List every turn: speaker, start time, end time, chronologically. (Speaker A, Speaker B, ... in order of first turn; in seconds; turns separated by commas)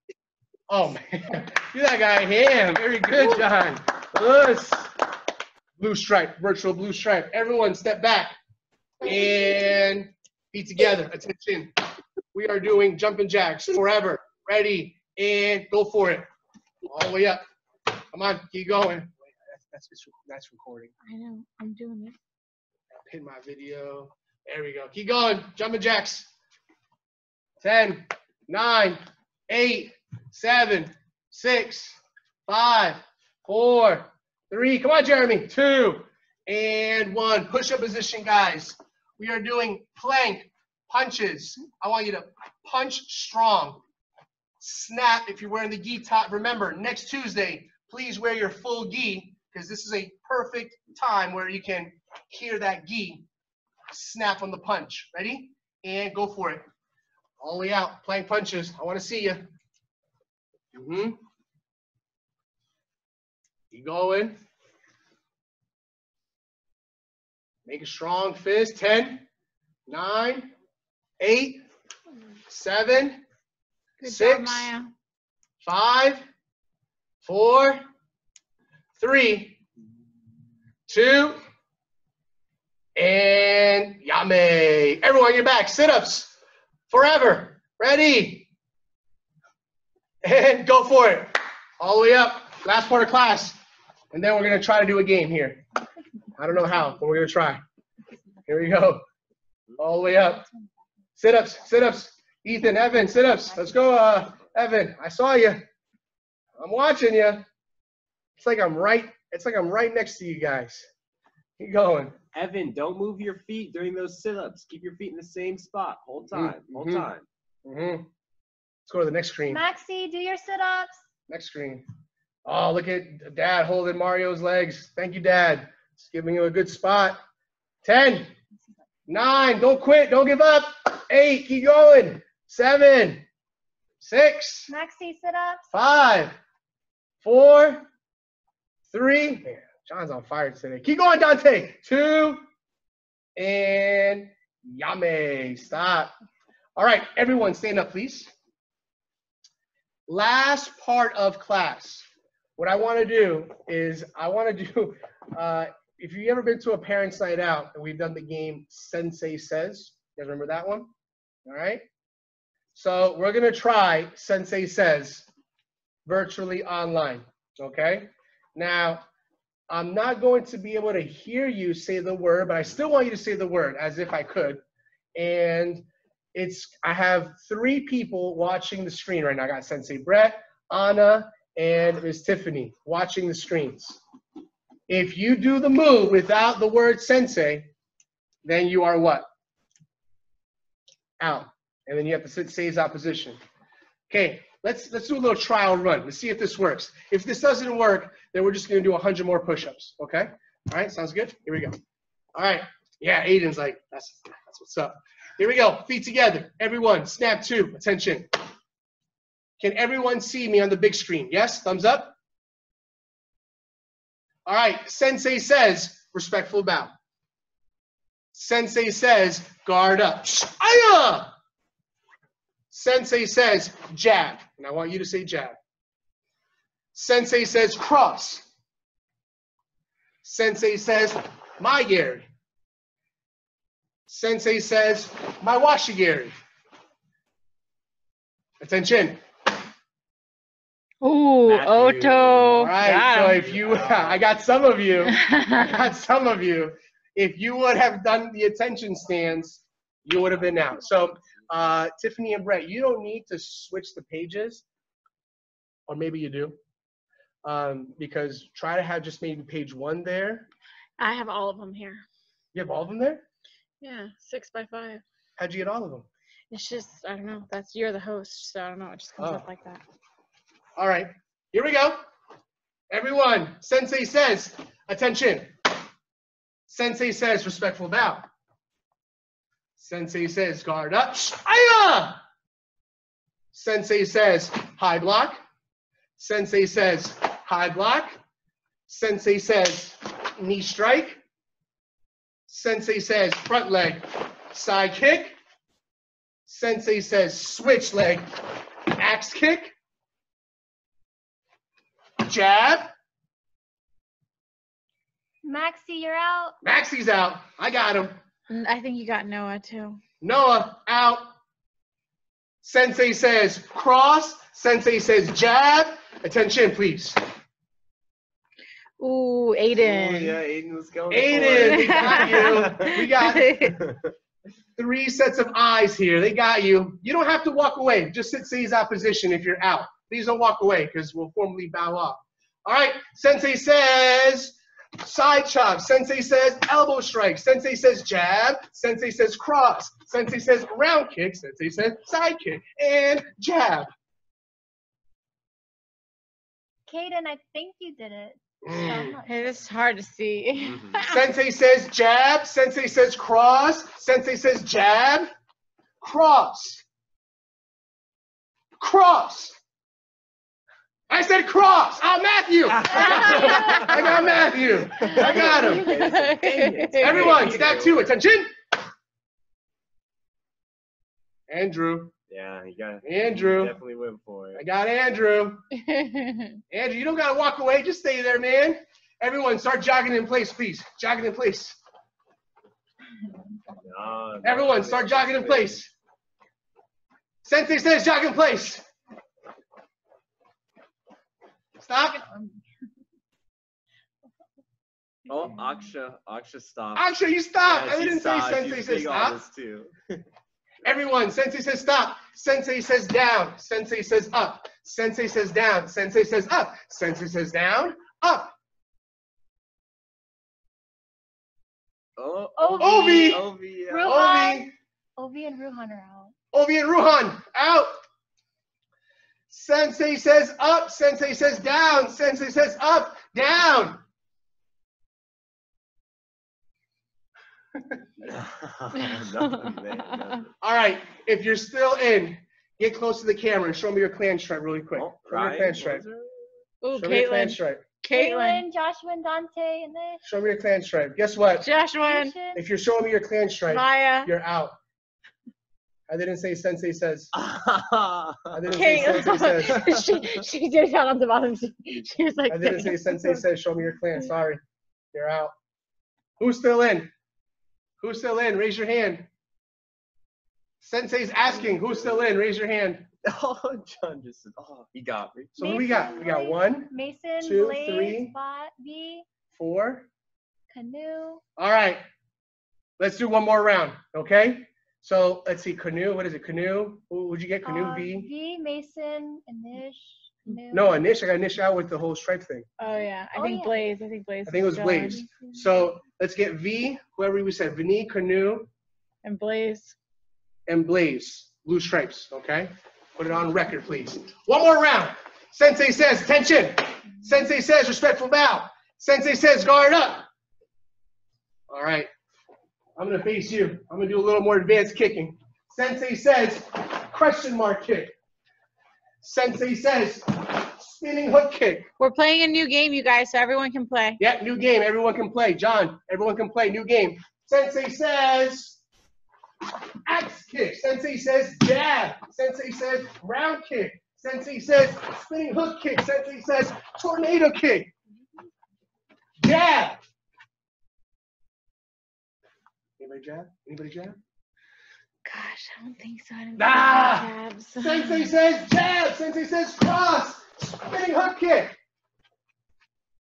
Speaker A: 0.7-4.9, Speaker A: 5.8-8.3, Speaker A: 9.0-11.8, Speaker A: 12.3-16.3, Speaker A: 16.9-17.4, Speaker A: 18.1-20.9, Speaker B: 21.1-22.1, Speaker A: 23.0-26.3, Speaker A: 27.6-43.8, Speaker A: 44.6-53.2, Speaker A: 53.9-56.7, Speaker A: 57.4-59.5, Speaker A: 60.7-61.2, Speaker A: 63.7-64.4, Speaker A: 67.7-69.2, Speaker A: 69.9-70.5, Speaker A: 71.2-71.6, Speaker A: 72.5-73.2, Speaker B: 74.0-74.9, Speaker A: 74.0-74.7, Speaker A: 75.6-76.2, Speaker A: 77.2-77.8, Speaker A: 79.0-79.6, Speaker A: 80.9-81.4, Speaker A: 83.0-86.3, Speaker A: 86.9-88.5, Speaker A: 90.2-93.6, Speaker A: 94.1-95.6, Speaker A: 96.4-97.6, Speaker A: 98.5-99.0, Speaker A: 99.8-100.5, Speaker A: 101.2-105.6, Speaker A: 106.6-107.4, Speaker A: 108.4-110.9, Speaker A: 111.6-112.2, Speaker C: 112.3-117.2, Speaker A: 116.3-117.1, Speaker A: 117.6-118.1, Speaker A: 118.9-119.6, Speaker D: 119.5-121.0, Speaker A: 121.3-121.8, Speaker A: 122.5-127.2, Speaker A: 127.8-128.3, Speaker A: 129.1-133.2, Speaker A: 134.0-134.7, Speaker D: 134.7-135.7, Speaker A: 135.7-136.4, Speaker A: 137.2-137.9, Speaker A: 138.9-142.4, Speaker A: 143.4-146.1, Speaker A: 146.8-148.3, Speaker A: 150.1-152.1, Speaker A: 152.6-160.9, Speaker A: 161.4-161.8, Speaker A: 162.7-165.3, Speaker A: 166.1-169.0, Speaker A: 169.7-174.6, Speaker A: 175.1-184.0, Speaker A: 184.9-187.7, Speaker A: 188.4-189.2, Speaker A: 191.2-193.4, Speaker A: 194.1-201.8, Speaker A: 202.3-208.3, Speaker A: 209.6-212.1, Speaker A: 214.4-216.9, Speaker A: 218.3-221.3, Speaker A: 222.7-225.6, Speaker A: 226.9-228.5, Speaker A: 230.2-232.2, Speaker A: 234.1-236.4, Speaker A: 238.6-239.2, Speaker B: 241.0-243.4, Speaker C: 241.4-244.3, Speaker A: 242.6-254.6, Speaker B: 245.1-245.8, Speaker C: 250.2-250.6, Speaker A: 255.9-256.6, Speaker A: 257.4-260.5, Speaker B: 261.0-262.0, Speaker A: 262.5-263.2, Speaker B: 263.8-265.0, Speaker A: 265.4-266.1, Speaker B: 266.5-269.8, Speaker A: 269.2-269.4, Speaker A: 270.8-272.0, Speaker A: 272.9-275.5, Speaker A: 276.7-278.2, Speaker A: 279.8-282.2, Speaker A: 283.5-285.4, Speaker A: 286.2-288.2, Speaker A: 288.9-291.2, Speaker A: 292.5-295.4, Speaker A: 296.5-298.2, Speaker A: 298.9-299.7, Speaker A: 302.2-302.9, Speaker D: 305.4-306.6, Speaker A: 306.6-308.1, Speaker B: 308.5-310.0, Speaker A: 310.2-311.3, Speaker A: 312.6-317.2, Speaker B: 319.0-320.4, Speaker C: 319.8-324.1, Speaker A: 321.1-323.6, Speaker B: 321.4-323.8, Speaker A: 324.8-343.9, Speaker D: 346.9-349.7, Speaker A: 348.6-349.2, Speaker B: 349.2-351.2, Speaker C: 350.7-351.0, Speaker A: 351.1-355.3, Speaker A: 356.0-356.8, Speaker A: 358.8-359.6, Speaker A: 361.1-366.0, Speaker C: 362.7-368.1, Speaker B: 363.2-363.9, Speaker B: 365.1-367.4, Speaker A: 367.0-368.5, Speaker A: 371.5-372.1, Speaker C: 372.3-374.6, Speaker A: 373.0-373.8, Speaker A: 374.5-375.6, Speaker B: 375.8-376.6, Speaker A: 376.7-381.8, Speaker C: 383.7-385.9, Speaker A: 384.4-385.9, Speaker A: 387.4-388.8, Speaker A: 391.8-392.2, Speaker C: 395.3-397.1, Speaker A: 396.9-399.4, Speaker C: 397.6-400.2, Speaker A: 400.8-408.5, Speaker C: 412.2-414.5, Speaker D: 412.6-416.3, Speaker A: 412.8-413.5, Speaker A: 414.0-414.7, Speaker A: 416.5-418.0, Speaker A: 419.5-424.0, Speaker C: 428.2-430.5, Speaker A: 430.6-436.0, Speaker C: 434.9-436.5, Speaker B: 436.8-438.6, Speaker A: 436.9-437.8, Speaker D: 438.1-440.2, Speaker A: 440.2-441.7, Speaker B: 441.6-442.3, Speaker D: 442.0-442.6, Speaker A: 442.5-444.7, Speaker B: 443.7-444.3, Speaker A: 446.1-447.3, Speaker C: 447.3-450.4, Speaker A: 448.5-449.9, Speaker B: 448.7-453.4, Speaker A: 452.5-454.6, Speaker A: 455.1-455.5, Speaker A: 456.4-457.1, Speaker A: 458.0-459.3, Speaker A: 460.8-463.1, Speaker C: 461.4-462.2, Speaker C: 463.2-465.8, Speaker A: 465.6-468.3, Speaker D: 465.6-469.2, Speaker A: 469.5-470.1, Speaker D: 470.7-471.4, Speaker A: 471.6-472.0, Speaker A: 473.0-478.3, Speaker D: 477.6-481.0, Speaker A: 480.7-482.7, Speaker B: 482.8-485.3, Speaker D: 483.3-483.9, Speaker A: 484.4-488.7, Speaker B: 489.2-489.9, Speaker A: 490.7-500.2, Speaker A: 501.7-502.1, Speaker A: 503.0-508.1, Speaker A: 509.2-511.9, Speaker B: 512.0-514.2, Speaker A: 514.2-518.8, Speaker A: 520.0-527.9, Speaker A: 529.4-530.0, Speaker A: 533.0-534.2, Speaker B: 535.2-538.4, Speaker A: 536.6-541.8